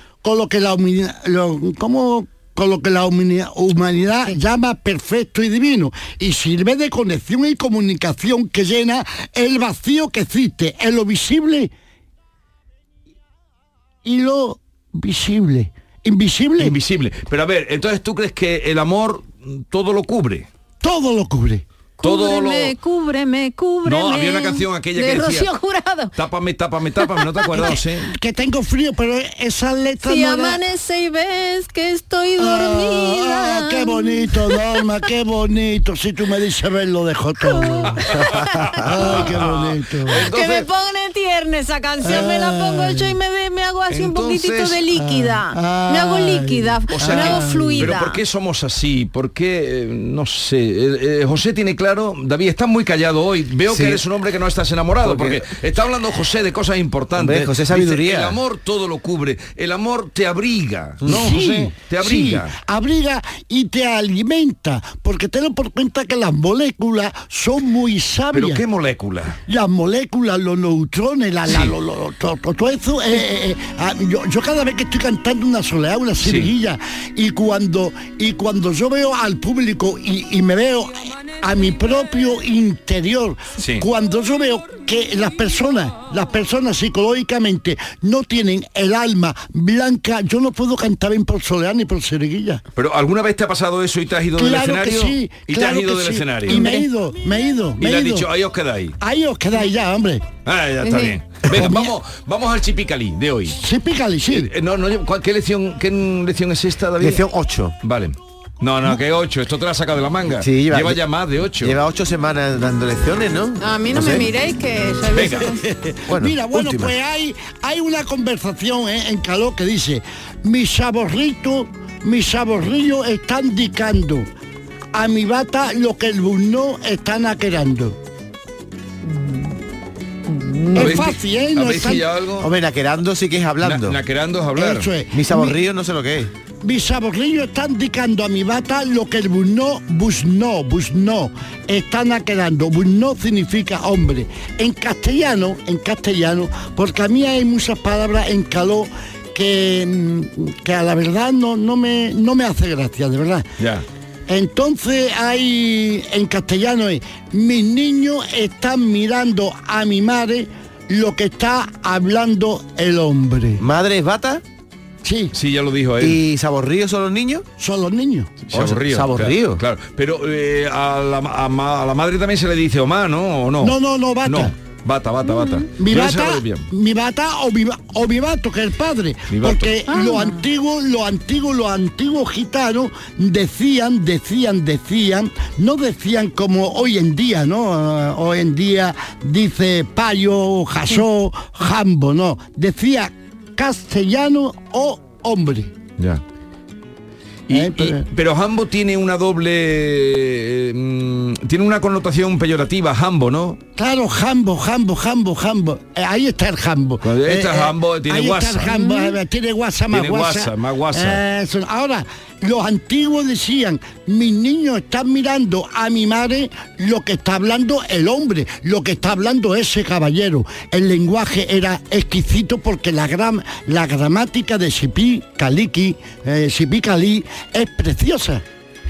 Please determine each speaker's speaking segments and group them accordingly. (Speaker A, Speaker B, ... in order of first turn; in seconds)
Speaker A: 0.2-11.7, 14.0-16.7, 20.8-21.6, 27.6-30.6, 32.4-38.1, 38.8-40.3, 42.0-43.1, 44.9-47.9, 61.1-68.6, 69.5-92.6, 94.4-98.3, 99.0-100.3, 101.5-101.9, 103.6-104.5, 115.7-124.2, 124.9-128.0, 130.7-132.0, 134.6-135.5, 136.6-153.4, 154.3-163.6, 165.0-165.3, 167.6-168.4, 173.6-174.5, 175.8-195.7, 197.5-198.1, 203.8-228.4
Speaker B: 16.6-20.5, 22.0-22.7, 23.8-25.5, 26.1-28.1, 38.1-40.7, 43.9-44.8, 46.9-62.5, 68.3-69.3, 71.5-71.7, 76.2-76.5, 83.6-83.8, 92.8-96.7, 97.8-99.0, 100.4-103.6, 104.3-107.2, 107.8-111.8, 130.7-132.5, 133.6-134.9, 153.6-153.8, 165.3-166.2, 168.5-176.7, 179.3-179.8, 197.5-203.6, 207.0-208.7, 209.9-211.2
Speaker C: 22.0-26.1, 27.2-27.7, 30.0-34.6, 37.4-39.2, 40.1-48.2, 96.5-96.8, 100.8-101.2, 113.6-115.6, 129.0-129.6, 130.3-131.0, 175.2-175.6, 179.9-180.4, 208.7-209.2
Speaker D: 53.7-54.0, 55.0-55.4, 57.1-58.4, 61.0-61.3, 107.0-107.7, 110.4-111.0, 111.6-114.3, 116.1-116.9, 132.4-133.9, 135.1-136.3, 163.6-164.4, 166.0-167.4, 168.5-169.6